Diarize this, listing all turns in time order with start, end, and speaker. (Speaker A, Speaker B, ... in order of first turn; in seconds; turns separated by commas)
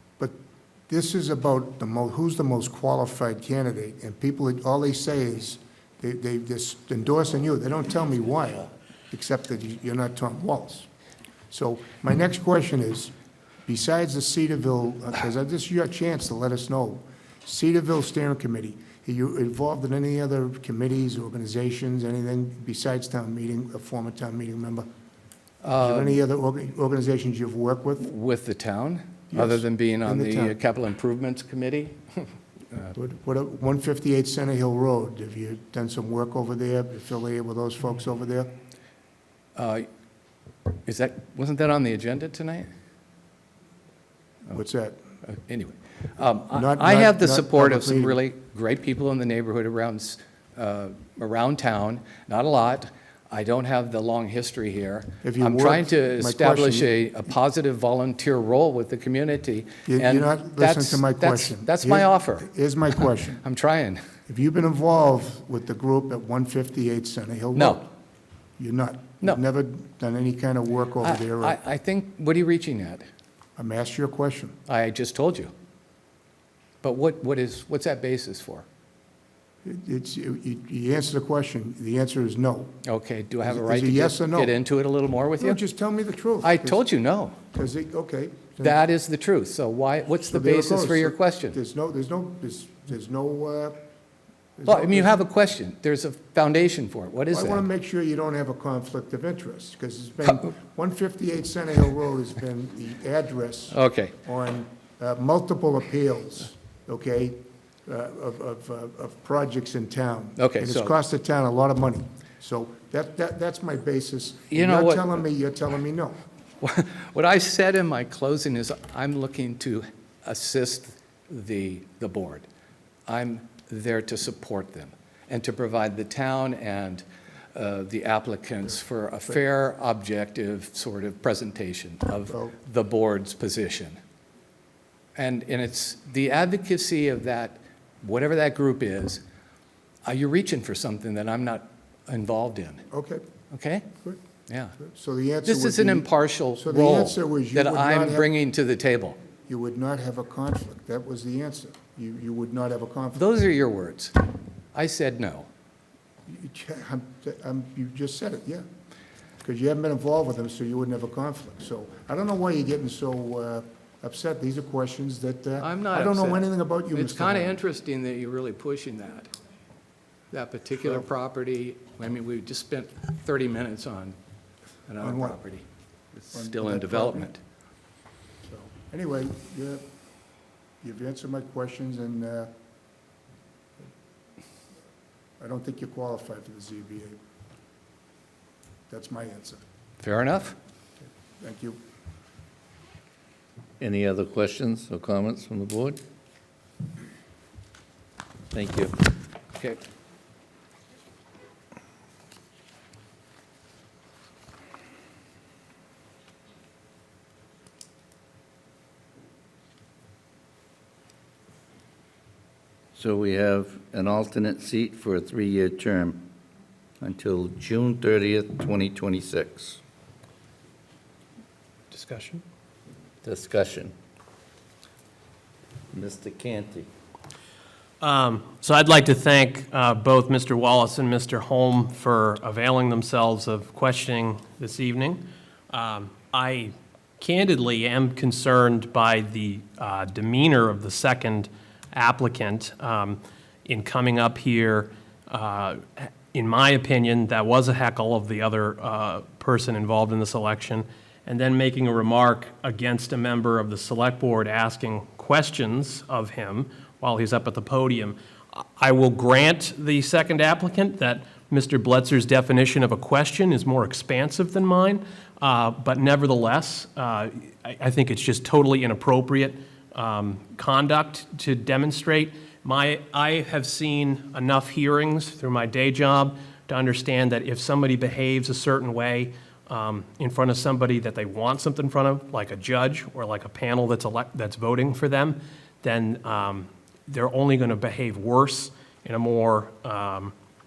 Speaker A: 0.9-10.9, Speaker A: 11.5-13.1, Speaker A: 13.7-24.9, Speaker B: 25.6-26.2, Speaker A: 25.8-28.1, Speaker B: 28.0-32.9, Speaker A: 29.3-30.6, Speaker A: 32.9-38.5, Speaker B: 39.6-39.9, Speaker B: 40.9-42.7, Speaker A: 44.5-45.0, Speaker B: 45.3-62.5, Speaker A: 46.5-48.2, Speaker A: 55.2-56.9, Speaker A: 59.9-63.4, Speaker B: 63.4-64.0, Speaker A: 64.3-67.9, Speaker B: 67.5-67.9, Speaker A: 68.6-71.6, Speaker B: 71.0-73.1, Speaker A: 73.6-74.6, Speaker B: 74.7-75.5, Speaker B: 76.8-78.7, Speaker A: 79.6-82.8, Speaker B: 82.8-85.6, Speaker A: 83.4-84.5, Speaker A: 85.4-86.8, Speaker B: 86.4-87.4, Speaker A: 87.5-88.8, Speaker B: 88.6-91.6, Speaker A: 90.2-93.9, Speaker A: 94.6-95.2, Speaker B: 94.7-97.7, Speaker A: 97.3-116.2, Speaker B: 103.7-104.1, Speaker B: 110.4-110.9, Speaker B: 114.5-115.2, Speaker B: 116.6-122.5, Speaker B: 123.1-134.0, Speaker A: 132.3-132.6, Speaker B: 135.2-139.2, Speaker B: 140.1-142.8, Speaker A: 142.9-143.2, Speaker B: 143.5-143.9, Speaker B: 144.5-144.8, Speaker A: 144.8-148.3, Speaker B: 145.5-149.2, Speaker A: 149.5-153.3, Speaker B: 153.2-154.2, Speaker B: 154.7-155.5, Speaker A: 156.3-158.7, Speaker A: 159.4-167.6, Speaker B: 165.6-169.3, Speaker B: 170.3-174.2, Speaker B: 174.9-177.4, Speaker A: 175.0-175.4, Speaker A: 176.3-177.3, Speaker A: 178.4-179.9, Speaker A: 180.8-182.5, Speaker A: 185.4-187.2, Speaker A: 188.9-189.6, Speaker B: 190.0-190.6, Speaker A: 191.4-191.8, Speaker C: 193.8-196.0, Speaker C: 198.5-198.9, Speaker C: 212.9-216.3, Speaker C: 217.0-219.8, Speaker D: 221.9-222.4, Speaker C: 223.2-223.9, Speaker C: 225.9-226.9, Speaker D: 228.0-290.3